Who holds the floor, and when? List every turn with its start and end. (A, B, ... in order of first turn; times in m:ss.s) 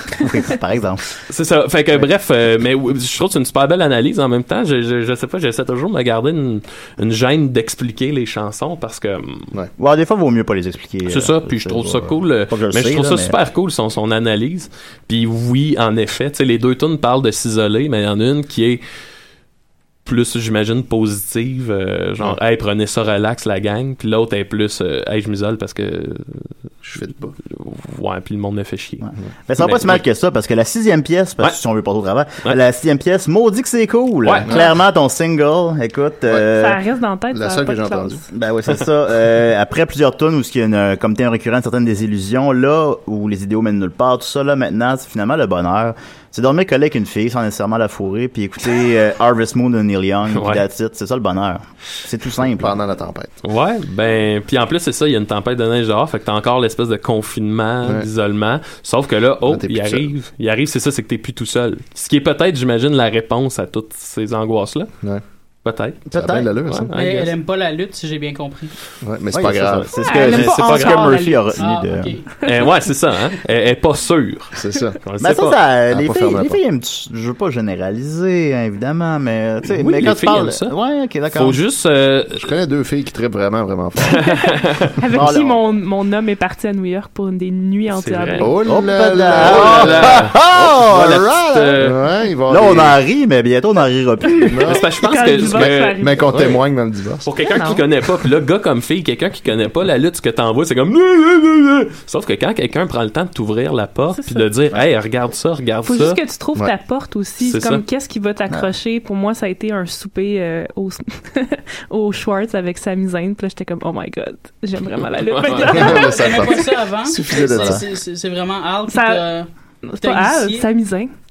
0:00.2-0:01.1 A
0:01.3-0:09.5 B
0:09.8-0:13.4 A
0:11.1-0:18.8 B
0:20.0-0:26.5 B
0:26.8-0:27.4 C
0:27.5-0:29.0 B
0:29.0-0:36.8 A
0:29.6-0:30.0 B
0:34.2-0:34.5 B
0:36.5-0:38.3 D
0:37.3-0:38.2 C
0:38.3-0:52.8 A
0:50.3-0:50.6 B
0:52.6-0:53.4 C
0:53.4-1:04.9 B
0:59.4-1:00.1 C
1:05.6-1:06.0 B
1:06.1-1:06.5 A
1:06.1-1:06.9 C
1:06.7-1:07.4 B
1:06.9-1:08.7 E
1:09.0-1:10.0 C
1:09.3-1:12.2 A
1:10.0-1:11.7 D
1:10.2-1:11.1 B
1:11.6-1:12.3 E
1:12.4-1:15.6 B
1:14.6-1:15.0 C
1:15.2-1:21.6 A
1:15.9-1:16.6 C
1:19.7-1:20.8 B
1:21.3-1:22.5 B
1:22.4-1:24.3 C
1:24.1-1:24.9 B
1:25.0-1:28.6 D
1:25.1-1:25.6 A
1:27.9-1:28.5 B
1:28.4-1:30.3 C
1:28.6-1:31.8 A
1:29.3-1:32.0 B
1:31.8-1:33.0 C
1:32.5-1:34.8 A
1:34.4-1:37.3 C
1:34.6-1:36.6 B
1:34.9-1:36.5 D
1:37.2-1:46.2 B
1:37.4-1:37.8 D
1:44.2-1:44.5 D
1:45.9-1:56.6 D
1:47.4-1:47.8 B
1:55.2-1:56.0 B
1:55.6-1:57.8 C
1:56.0-2:00.7 E
1:58.9-1:59.3 D
1:59.8-2:01.1 D